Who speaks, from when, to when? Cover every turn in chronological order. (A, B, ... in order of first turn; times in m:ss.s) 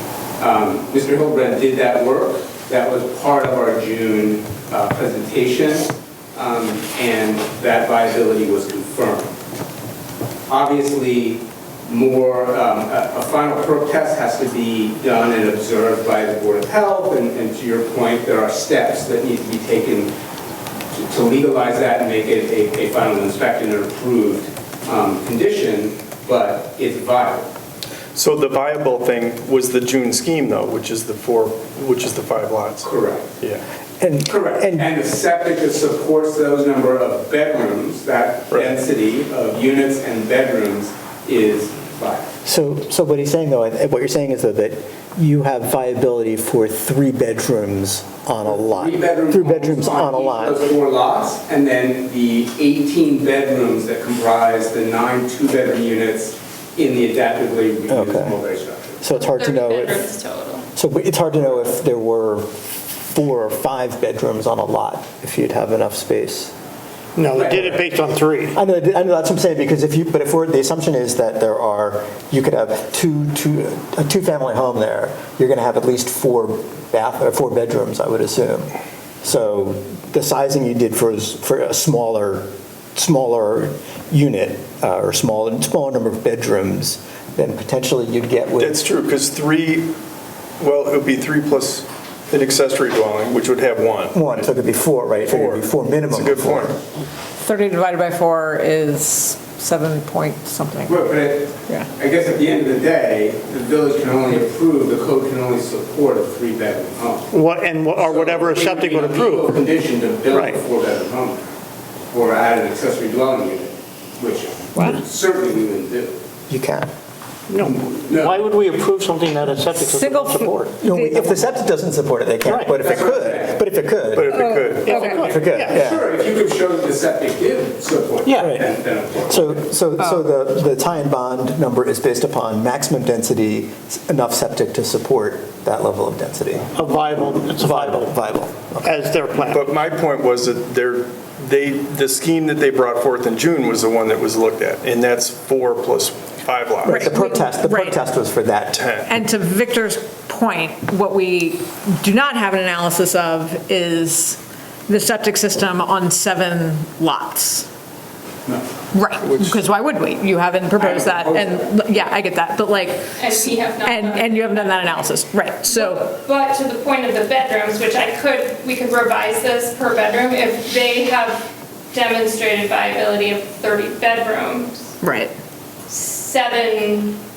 0:00.4-0:09.3 A
0:10.5-0:20.1 A
0:20.9-0:27.5 A
0:28.2-0:32.9 B
0:32.8-0:33.3 A
0:34.0-0:34.9 C
0:34.3-0:42.3 A
0:38.5-0:38.8 B
0:42.4-0:50.6 C
0:48.5-0:59.0 A
0:57.9-0:58.4 C
0:59.0-1:00.1 C
0:59.1-1:00.6 D
1:00.8-1:02.5 C
1:03.1-1:06.5 C
1:07.2-1:08.6 E
1:07.3-1:07.9 A
1:08.5-1:18.7 C
1:19.2-1:28.8 C
1:28.6-1:29.9 B
1:30.6-1:34.5 B
1:34.1-1:36.8 C
1:35.3-1:36.8 B
1:37.4-1:41.0 F
1:40.9-1:47.4 A
1:47.3-1:49.6 E
1:47.9-1:51.5 A
1:50.3-1:50.6 E
1:52.1-1:56.2 A
1:56.5-1:56.9 C
1:57.5-2:00.8 E
1:57.6-1:58.8 A
1:59.7-2:01.5 F
2:00.8-2:04.5 C
2:02.5-2:02.8 E
2:02.8-2:03.7 A
2:04.1-2:05.0 B
2:04.3-2:05.1 F
2:04.8-2:09.7 A
2:04.8-2:05.8 E
2:05.0-2:06.0 C
2:08.2-2:08.6 E
2:08.4-2:16.8 C
2:16.7-2:18.1 E
2:17.6-2:18.9 C
2:18.8-2:19.7 E
2:19.5-2:27.2 B
2:26.8-2:28.0 F
2:26.9-2:28.8 C
2:28.7-2:29.1 B
2:29.1-2:37.7 F
2:38.9-2:46.1 F
2:40.8-2:42.1 A
2:43.2-2:45.1 D
2:45.6-2:55.0 D
2:55.0-2:55.3 F
2:55.9-2:57.2 D